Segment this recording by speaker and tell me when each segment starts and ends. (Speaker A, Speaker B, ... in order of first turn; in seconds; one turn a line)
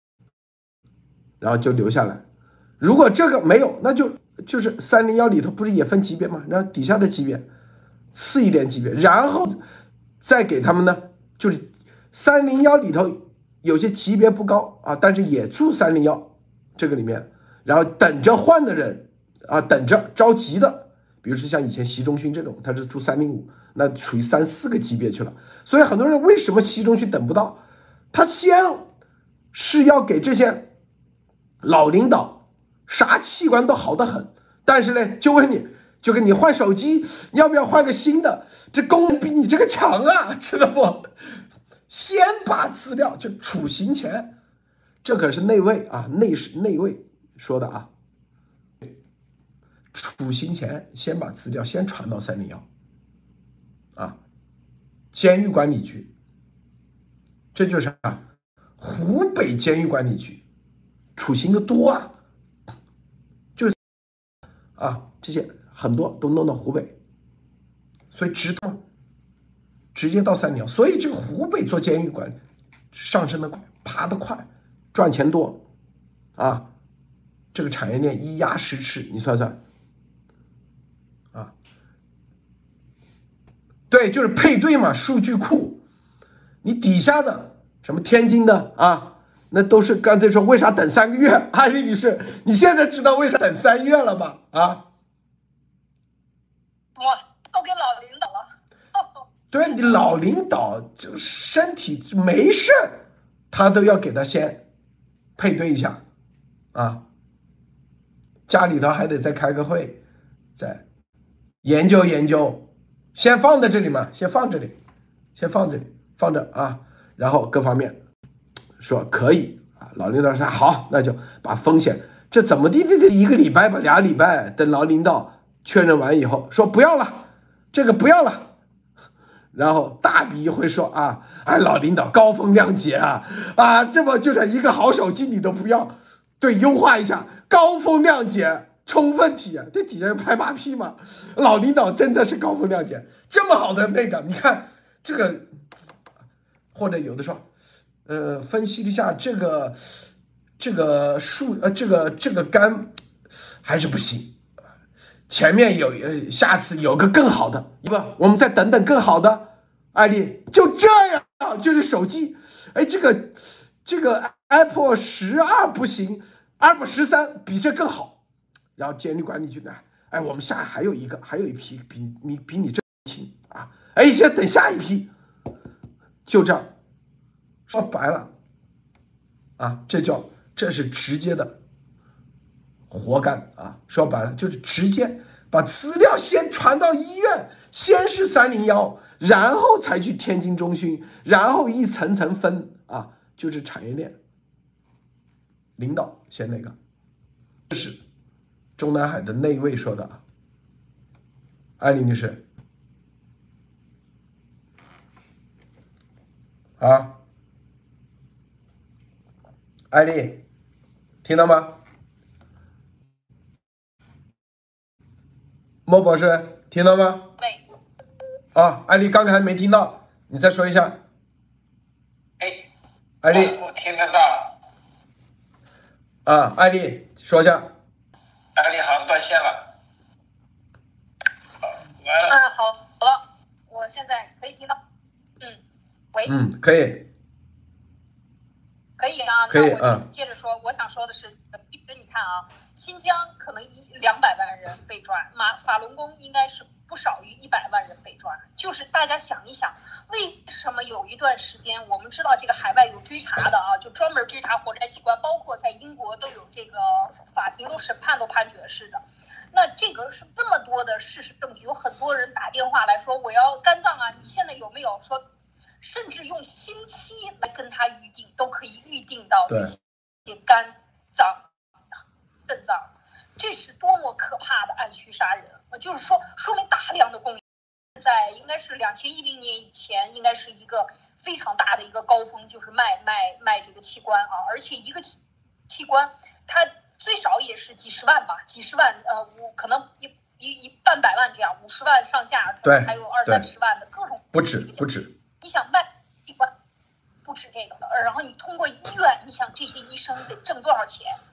Speaker A: 1.4-2.2
Speaker A: 2.8-7.5
Speaker A: 8.1-9.6
Speaker A: 10.2-27.6
Speaker A: 28.1-28.9
Speaker A: 29.5-30.7
Speaker A: 31.6-41.1
Speaker A: 41.9-44.3
Speaker A: 45.0-47.9
Speaker A: 49.9-52.7
Speaker A: 55.1-56.1
Speaker A: 57.5-58.2
Speaker A: 58.8-60.4
Speaker A: 61.2-62.1
Speaker A: 64.8-67.0
Speaker A: 68.1-68.8
Speaker A: 69.9-72.4
Speaker A: 72.9-75.6
Speaker A: 76.4-76.7
Speaker A: 77.5-79.6
Speaker A: 83.9-85.8
Speaker A: 86.6-94.9
Speaker B: 97.0-99.8
Speaker A: 99.5-104.7
Speaker A: 105.4-106.0
Speaker A: 106.7-107.0
Speaker A: 108.5-110.0
Speaker A: 110.6-110.8
Speaker A: 111.6-114.8
Speaker A: 115.4-118.0
Speaker A: 118.8-128.5
Speaker A: 129.5-145.5
Speaker A: 146.7-147.5
Speaker A: 148.1-149.8
Speaker A: 150.6-152.9
Speaker A: 153.6-154.4
Speaker A: 155.3-168.2
Speaker A: 168.8-175.1
Speaker A: 176.3-176.7
Speaker A: 177.7-178.3
Speaker A: 179.6-181.6
Speaker A: 182.9-194.2
Speaker A: 195.8-196.8
Speaker A: 197.7-198.0
Speaker A: 198.8-200.2
Speaker A: 201.8-202.4
Speaker A: 206.8-207.2
Speaker A: 209.9-210.4
Speaker A: 211.2-211.8
Speaker A: 215.9-217.3
Speaker A: 218.6-221.0
Speaker C: 222.4-222.7
Speaker A: 223.2-223.6
Speaker C: 223.3-224.6
Speaker A: 226.2-227.7
Speaker C: 228.6-229.7
Speaker C: 232.0-232.3
Speaker B: 232.3-234.8
Speaker A: 236.3-237.1
Speaker B: 239.0-265.2
Speaker A: 239.5-240.0
Speaker B: 265.8-271.4
Speaker A: 269.5-269.8
Speaker B: 272.5-277.4
Speaker B: 278.0-285.2
Speaker B: 285.7-294.9
Speaker A: 292.6-293.5
Speaker A: 294.3-295.1
Speaker B: 295.4-296.5
Speaker B: 297.2-301.2